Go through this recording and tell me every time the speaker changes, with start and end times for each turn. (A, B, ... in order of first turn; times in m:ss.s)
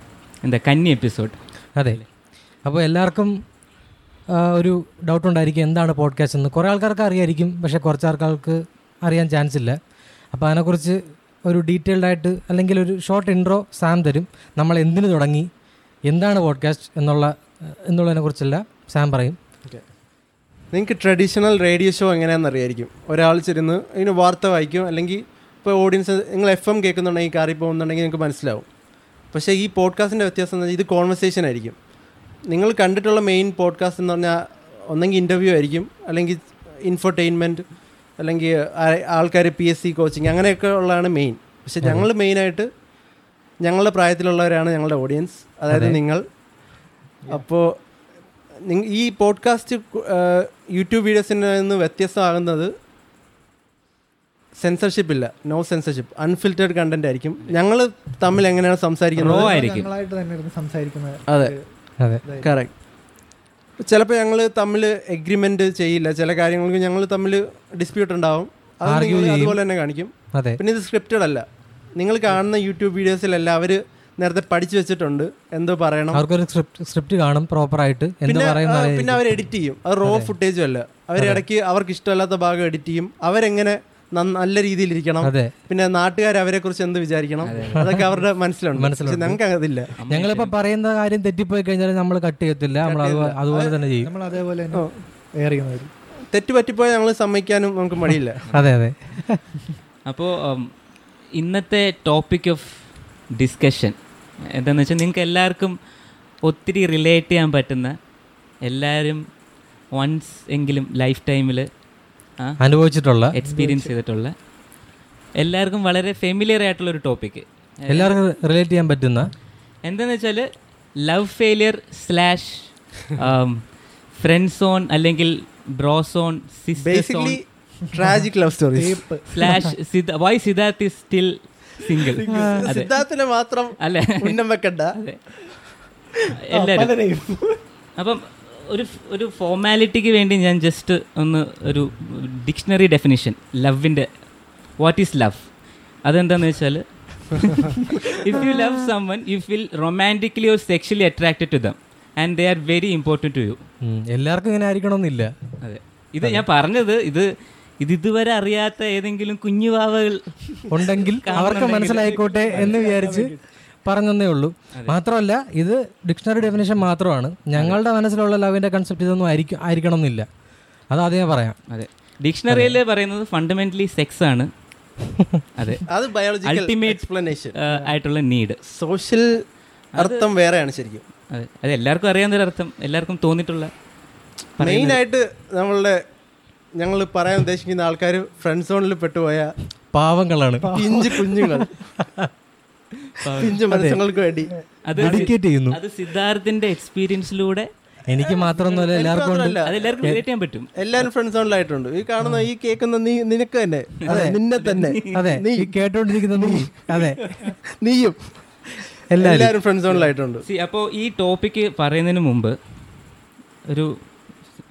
0:00.4-0:01.4 A
0:02.6-0:03.4 B
0:04.3-0:09.8 B
0:10.3-0:15.5 B
0:16.1-0:19.4 B
0:20.7-0:28.7 C
0:29.3-0:31.8 C
0:32.5-0:37.7 C
0:38.2-0:42.7 C
0:43.6-0:46.2 C
0:45.7-0:46.0 B
0:47.3-0:47.8 C
0:48.6-0:52.7 C
0:54.6-0:59.5 C
0:59.2-1:01.6 D
0:59.2-0:59.9 A
1:01.3-1:01.6 C
1:02.2-1:02.6 D
1:02.4-1:02.7 C
1:03.8-1:16.2 C
1:08.9-1:09.6 B
1:10.3-1:10.6 B
1:16.1-1:19.2 B
1:18.3-1:29.9 C
1:20.0-1:20.3 B
1:21.2-1:21.4 B
1:25.2-1:25.5 B
1:27.4-1:27.9 A
1:28.8-1:29.4 B
1:30.0-1:30.6 A
1:30.1-1:34.1 B
1:32.8-1:33.8 C
1:34.0-1:35.9 D
1:36.3-1:38.4 C
1:38.5-1:39.4 B
1:40.1-1:40.7 A
1:41.4-1:42.8 A
1:43.3-1:44.0 A
1:44.5-1:45.8 A
1:46.4-1:48.0 A
1:48.6-1:49.2 A
1:49.9-1:51.7 A
1:52.6-1:53.3 B
1:53.3-1:54.4 A
1:53.4-1:53.9 D
1:55.4-1:58.2 A
1:57.9-1:59.3 B
1:59.8-2:00.5 A
2:01.0-2:03.6 A
2:04.1-2:07.4 A
2:06.8-2:09.0 C
2:08.8-2:09.3 D
2:09.3-2:12.9 A
2:12.0-2:12.7 D
2:12.3-2:12.5 B
2:12.4-2:15.0 C
2:13.8-2:14.4 A
2:14.9-2:15.2 A
2:16.5-2:16.9 A
2:16.5-2:17.6 D
2:18.0-2:24.1 A
2:24.8-2:25.5 A
2:26.0-2:33.6 A
2:33.8-2:35.3 B
2:35.6-2:37.3 A
2:37.8-2:40.3 A
2:40.7-2:43.3 B
2:41.2-2:42.7 A
2:41.8-2:43.4 D
2:43.8-2:50.3 B
2:50.9-2:51.6 B
2:51.7-2:54.5 A
2:52.5-2:52.8 B
2:55.6-2:55.8 A
2:55.9-2:57.6 C
2:56.4-2:58.6 A
2:58.7-2:59.4 C
3:00.0-3:00.3 A
3:00.0-3:01.0 C
3:01.3-3:03.7 A
3:04.6-3:05.0 A
3:04.6-3:06.0 C
3:06.8-3:09.5 C
3:09.9-3:10.7 B
3:10.6-3:11.4 D
3:10.7-3:11.8 C
3:12.0-3:12.3 B
3:13.2-3:13.6 A
3:13.4-3:14.5 C
3:13.7-3:14.0 B
3:14.8-3:17.7 A
3:15.0-3:15.8 B
3:18.1-3:20.2 B
3:18.2-3:19.9 C
3:19.6-3:20.7 A
3:20.8-3:25.8 C
3:24.1-3:25.3 A
3:24.1-3:24.4 B
3:25.1-3:27.2 B
3:26.4-3:26.7 C
3:27.8-3:28.2 C
3:29.1-3:29.5 B
3:29.2-3:30.5 C
3:30.4-3:32.6 A
3:33.7-3:34.0 A